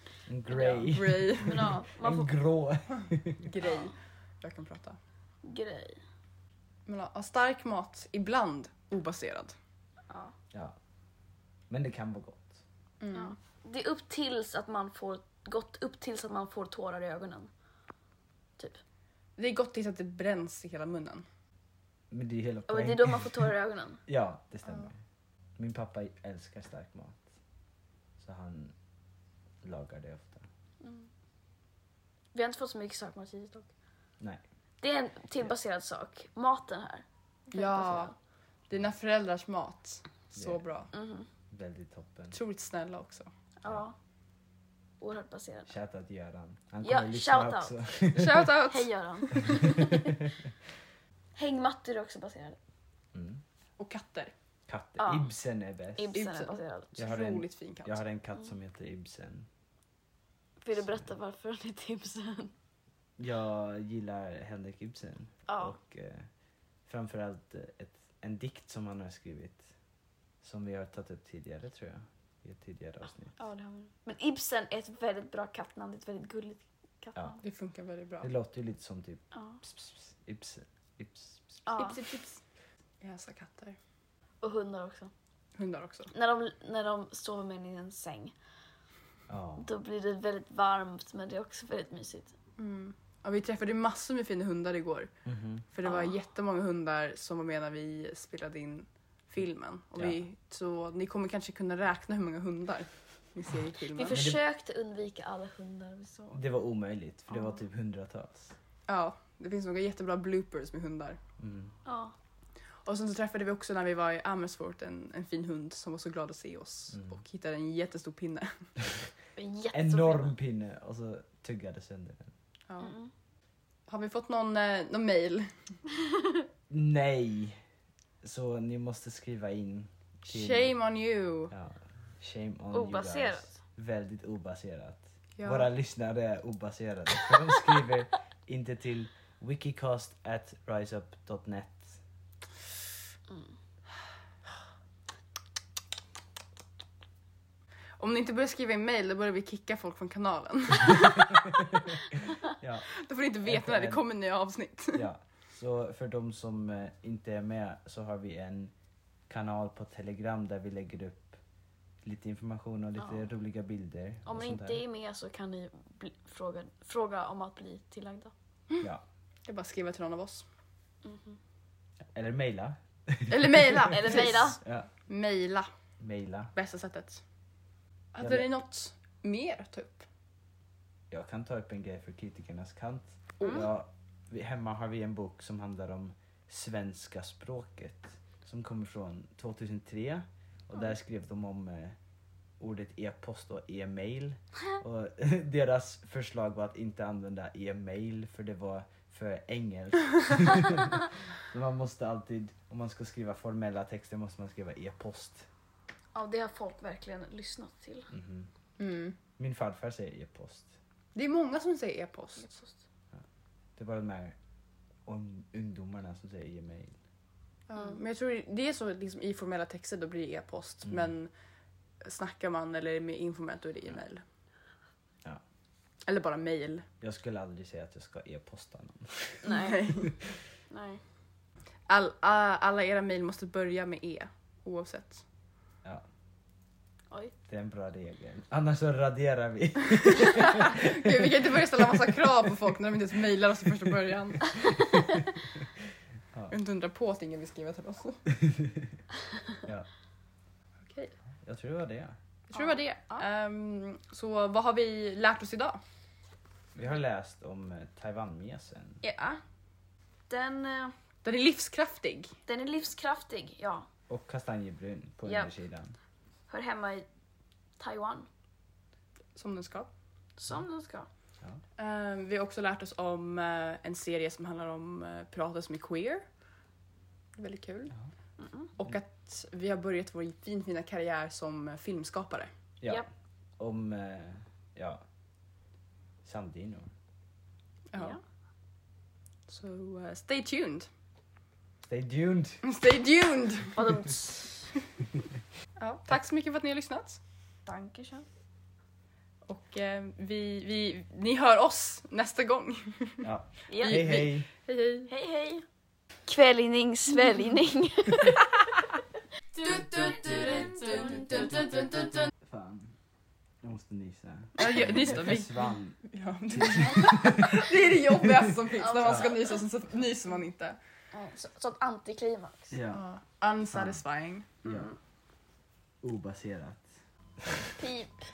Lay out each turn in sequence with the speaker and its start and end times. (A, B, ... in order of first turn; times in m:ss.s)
0:00.3-0:03.4 A
0:00.4-0:01.8 B
0:01.4-0:02.4 C
0:03.4-0:05.0 B
0:05.4-0:06.0 C
0:06.9-0:09.6 B
0:10.1-0:10.3 C
0:10.5-0:10.8 A
0:11.7-0:12.6 A
0:13.0-0:13.3 B
0:13.1-0:17.5 C
0:19.4-0:21.2 B
0:22.1-0:23.5 A
0:22.7-0:24.0 C
0:24.1-0:25.0 A
0:25.6-0:27.3 A
0:28.2-0:28.7 A
0:29.6-0:30.5 A
0:30.8-0:31.1 C
0:32.3-0:33.7 C
0:34.8-0:38.1 C
0:37.5-0:38.1 B
0:38.7-0:40.9 B
0:40.9-0:41.3 C
0:41.5-0:42.4 A
0:42.3-0:43.3 B
0:43.6-0:43.9 C
0:45.0-0:45.7 C
0:45.6-0:48.5 A
0:46.8-0:47.8 C
0:48.1-0:49.6 B
0:48.7-0:50.1 C
0:49.6-0:50.5 A
0:51.4-0:52.6 C
0:53.1-0:53.4 A
0:53.8-0:54.3 B
0:54.7-0:56.1 A
0:55.0-0:55.3 C
0:56.0-0:57.0 C
0:56.1-0:58.0 B
0:57.0-0:59.5 A
1:00.6-1:02.5 C
1:03.2-1:06.3 A
1:05.5-1:05.8 C
1:06.9-1:09.7 A
1:10.4-1:13.4 A
1:13.4-1:17.4 C
1:17.4-1:18.3 B
1:18.2-1:21.6 A
1:19.3-1:19.6 C
1:21.6-1:22.0 C
1:21.8-1:22.4 B
1:23.0-1:23.8 B
1:24.4-1:25.1 C
1:25.6-1:26.1 B
1:26.1-1:28.3 C
1:29.3-1:29.7 A
1:29.6-1:32.3 C
1:32.6-1:35.1 B
1:35.2-1:35.6 A
1:35.7-1:44.2 B
1:35.8-1:36.1 C
1:43.9-1:46.4 C
1:44.1-1:44.4 A
1:46.3-1:48.5 A
1:48.9-1:51.2 B
1:51.4-1:51.7 A
1:51.8-1:52.1 C
1:52.8-1:58.7 B
1:56.9-1:57.2 A
1:59.4-2:00.3 C
1:59.7-2:02.3 A
2:02.7-2:02.9 B
2:02.8-2:03.1 C
2:03.9-2:05.7 B
2:06.7-2:07.6 A
2:08.2-2:10.7 A
2:10.2-2:11.5 B
2:11.5-2:22.0 A
2:12.7-2:13.5 C
2:15.4-2:15.7 B
2:28.0-2:31.6 B
2:31.2-2:32.9 A
2:32.9-2:35.1 B
2:33.4-2:34.0 A
2:34.9-2:38.7 A
2:39.3-2:41.4 A
2:42.0-2:44.8 A
2:44.2-2:48.3 C
2:49.4-2:50.4 B
2:51.0-2:51.4 C
2:52.1-2:54.9 A
2:53.3-2:55.7 B
2:53.9-2:54.6 C
2:56.0-2:56.5 A
2:56.5-2:57.2 B
2:58.1-3:00.0 B
2:58.2-2:58.4 A
3:01.1-3:12.0 A
3:03.4-3:03.6 C
3:12.6-3:25.5 A
3:26.1-3:28.1 C
3:28.1-3:28.5 A
3:28.8-3:29.2 B
3:29.4-3:30.7 A
3:31.1-3:32.6 B
3:33.8-3:34.4 A
3:35.0-3:37.0 A
3:37.7-3:41.3 B
3:42.0-3:44.2 B
3:46.0-3:46.9 B
3:47.0-3:50.3 A
3:49.4-3:49.9 C
3:49.5-3:50.1 B
3:50.7-3:51.0 C
3:51.9-3:55.2 B
3:57.5-4:01.3 A
4:00.4-4:04.7 B
4:04.6-4:05.2 C
4:06.5-4:08.3 B
4:08.3-4:08.9 A
4:10.8-4:11.1 B
4:11.4-4:12.1 A
4:12.5-4:15.8 B
4:12.5-4:13.2 C
4:16.7-4:19.0 A
4:19.0-4:19.4 C
4:20.3-4:20.9 C
4:21.2-4:22.3 B
4:22.5-4:23.9 C
4:24.1-4:25.9 A
4:25.2-4:25.5 C
4:26.5-4:27.0 C
4:27.8-4:28.3 C
4:29.3-4:29.9 B
4:30.4-4:31.1 C
4:31.8-4:36.2 B
4:37.4-4:37.9 B
4:38.4-4:38.7 C
4:38.8-4:42.5 B
4:43.6-4:45.0 A
4:46.2-4:46.9 A
4:47.9-4:48.2 B
4:48.0-4:48.2 C
4:49.5-4:50.9 B
4:51.8-4:52.6 A
4:52.6-4:53.8 B
4:53.7-4:54.7 C
4:55.8-4:57.2 B
4:57.6-4:58.2 C
4:59.4-5:03.3 B
5:03.2-5:04.5 A
5:03.7-5:04.2 C
5:03.8-5:05.1 B
5:05.1-5:05.6 C
5:06.3-5:08.4 C
5:09.9-5:11.8 A
5:11.1-5:11.6 C
5:12.4-5:12.9 A
5:13.6-5:16.0 A
5:14.6-5:20.8 B
5:16.5-5:17.8 A
5:18.8-5:19.6 C
5:21.1-5:22.8 C
5:22.7-5:23.0 A
5:22.9-5:24.8 B
5:23.7-5:24.0 A
5:24.6-5:24.9 A
5:24.7-5:24.9 C
5:26.0-5:26.9 A
5:27.8-5:28.2 C